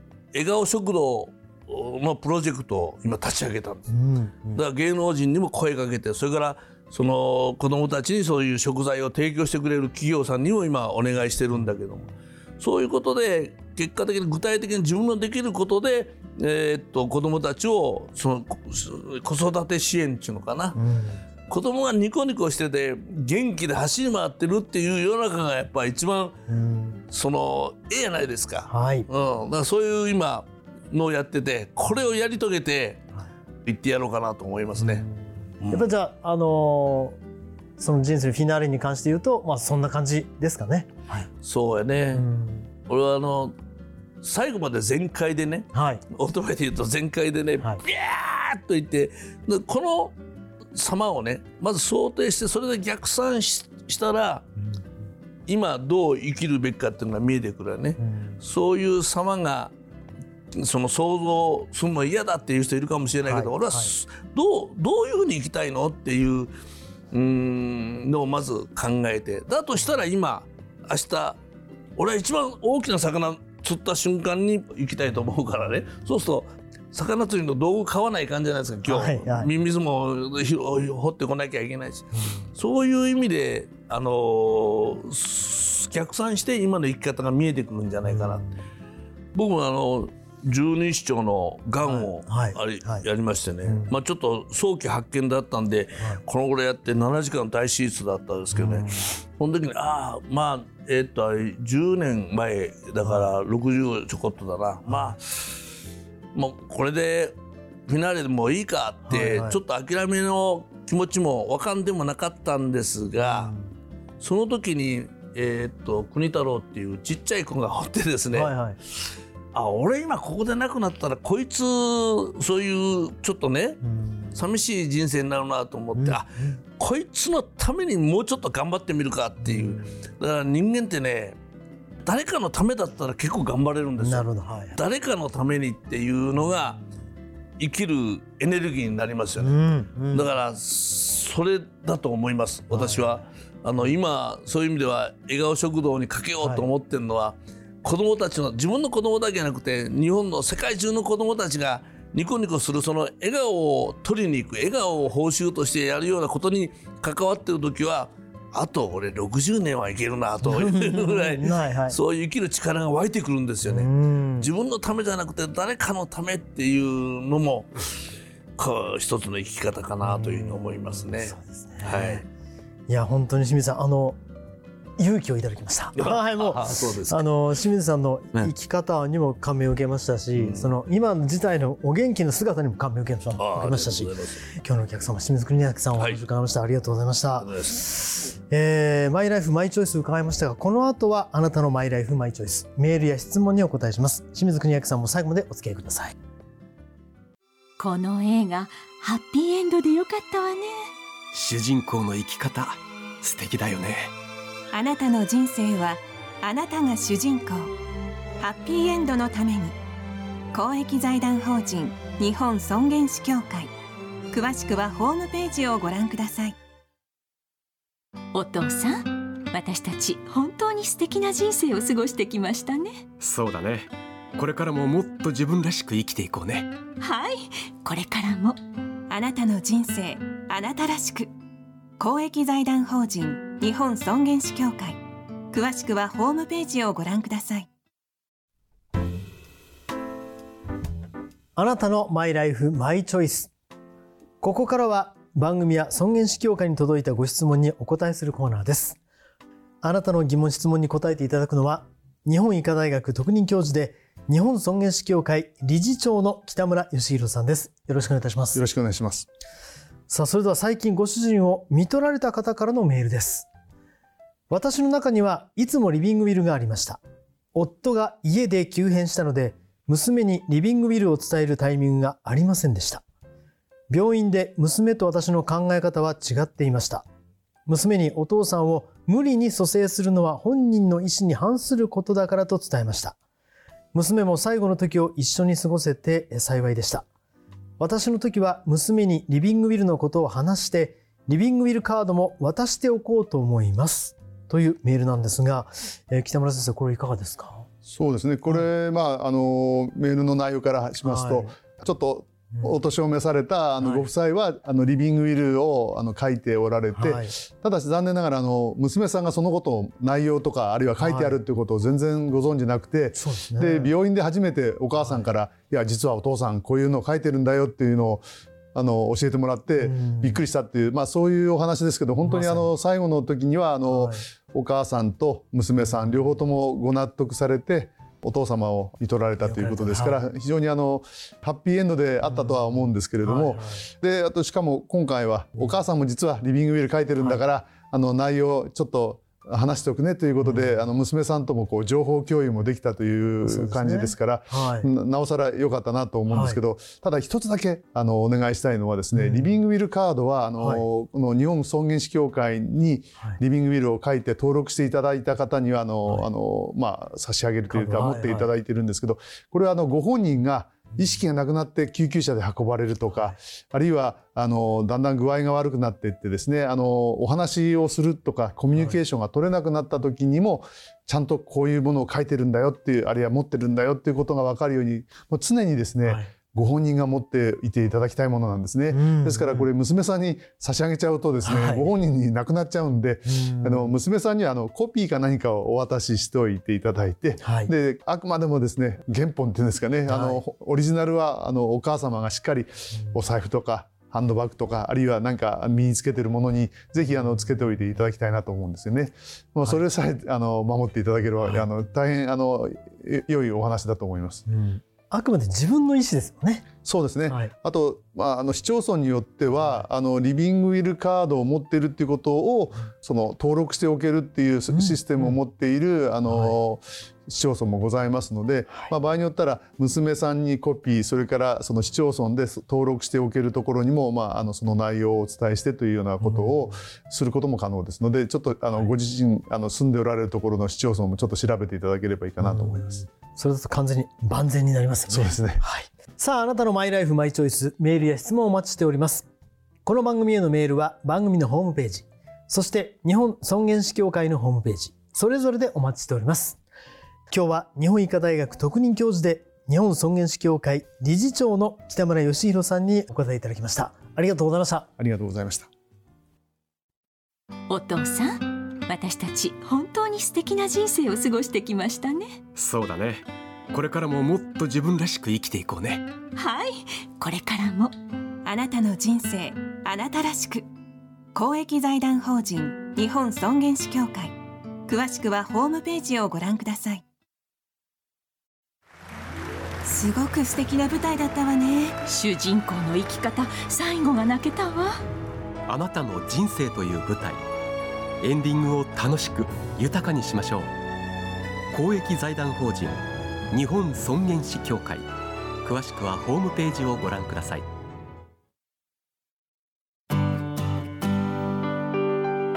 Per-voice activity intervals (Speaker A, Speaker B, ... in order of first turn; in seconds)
Speaker A: 0.3-3.9, 4.5-20.8, 21.5-26.4, 27.1-33.1, 33.6-35.1, 35.6-35.9, 41.4-42.3, 42.9-43.6, 44.2-50.2, 50.7-54.5, 55.5-59.7, 60.5-66.5, 67.1-71.4, 72.0-88.5, 89.3-105.6, 106.3-113.5, 114.2-123.8, 124.3-131.4, 132.0-136.8, 137.6-139.6, 140.1-168.0, 168.6-172.2, 176.0-177.3, 180.4-180.7, 183.4-184.4, 186.0-186.2, 187.4-187.8
Speaker B: 3.9-4.6, 20.8-21.2, 26.5-27.0, 28.7-29.1, 34.8-37.2, 37.8-41.3, 42.1-42.7, 45.7-46.0, 54.6-54.9, 58.0-58.4, 63.3-63.9, 78.9-79.5, 82.1-82.5, 88.0-88.6, 91.8-93.0, 93.7-93.9, 98.5-99.1, 103.0-103.3, 104.9-105.2, 109.1-109.6, 113.2-113.7, 118.3-118.8, 123.8-124.4, 126.0-126.6, 129.4-130.1, 134.0-134.8, 139.4-140.3, 142.7-143.2, 160.4-162.0, 163.6-164.5, 170.0-172.2, 172.9-174.2, 175.0-196.1, 241.6-243.5, 244.4-249.0, 249.8-258.6, 260.1-263.5, 264.5-267.0, 267.6-273.0, 273.9-277.1, 277.7-283.2, 283.9-287.1, 287.8-297.7, 301.0-301.6, 303.8-304.1, 306.9-307.3, 311.0-311.4, 313.1-313.9, 315.0-315.3, 319.8-320.4, 322.2-322.7, 323.9-324.2, 325.8-326.4, 329.4-330.2, 332.2-333.9, 340.4-340.9, 343.5-344.9, 346.3-346.6, 349.1-349.6, 350.6-350.8, 357.7-358.5, 363.1-363.4, 378.9-379.7, 381.4-381.9, 383.3-383.9, 387.4-387.7, 390.1-390.4, 404.5-406.7, 409.6-409.9, 414.7-415.4, 416.3-416.6, 426.2-426.7, 432.4-439.3, 439.9-446.6, 447.3-454.9
Speaker C: 197.8-200.9, 218.3-223.1, 227.0-228.6, 457.7-462.4, 466.4-467.9, 482.1-485.0
Speaker D: 201.3-204.1, 223.2-226.7, 462.6-466.1, 485.7-487.4, 488.2-490.7, 491.7-495.1, 495.6-497.7
Speaker E: 204.7-207.7, 208.4-209.8, 210.5-213.7, 214.3-216.6, 229.1-231.3, 232.0-235.0, 235.5-237.7, 468.4-470.7, 471.4-474.3, 474.9-477.0, 479.9-482.0
Speaker F: 258.6-259.3, 297.9-404.4, 406.8-433.0, 435.1-435.6, 455.0-455.7